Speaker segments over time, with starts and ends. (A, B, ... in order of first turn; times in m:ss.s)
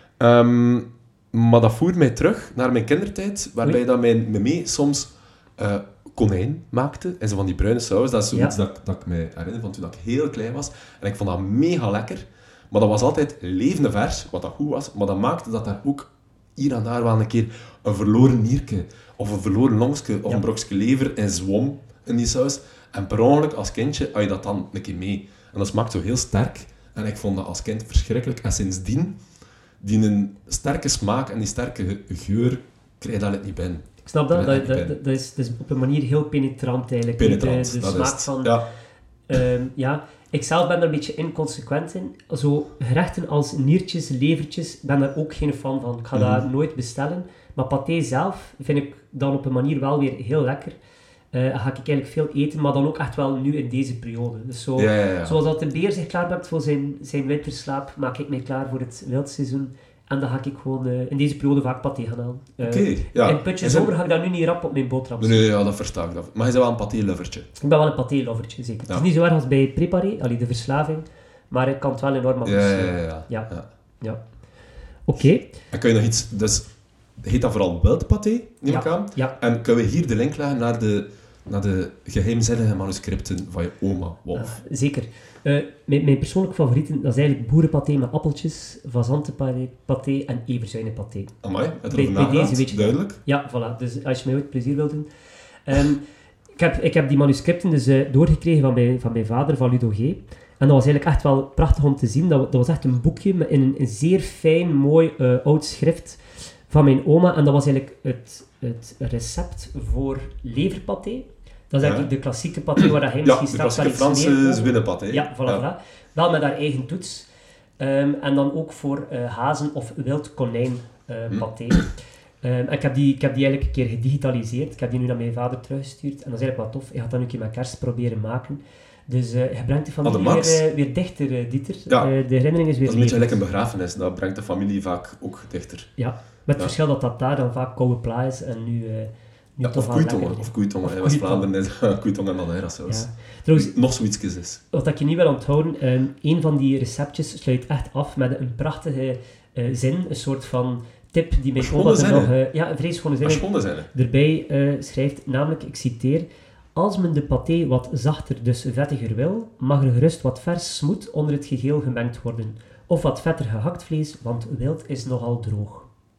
0:00.2-0:29.2 A
0:29.8-0:35.0 A
0:34.0-0:38.5 B
0:37.2-0:38.6 A
0:39.3-0:50.8 B
0:46.1-0:46.4 A
0:51.3-1:05.4 B
0:54.8-0:55.4 A
1:02.6-1:03.9 A
1:05.2-1:07.5 A
1:07.6-1:13.5 B
1:12.4-1:13.6 A
1:15.0-1:15.5 B
1:15.7-1:16.7 A
1:17.2-1:24.5 A
1:18.7-1:19.3 B
1:24.3-1:31.3 B
1:31.4-1:33.2 A
1:31.9-1:35.1 B
1:35.6-1:36.0 B
1:36.6-1:57.3 B
1:51.8-1:52.1 A
1:52.8-1:55.6 A
1:57.8-2:01.9 B
2:01.3-2:01.8 A
2:02.4-2:13.4 B
2:10.0-2:10.6 A
2:12.8-2:15.9 A
2:16.0-2:21.5 B
2:19.6-2:24.6 A
2:22.9-2:23.7 B
2:24.7-2:45.9 B
2:31.6-2:32.3 A
2:33.2-2:33.9 A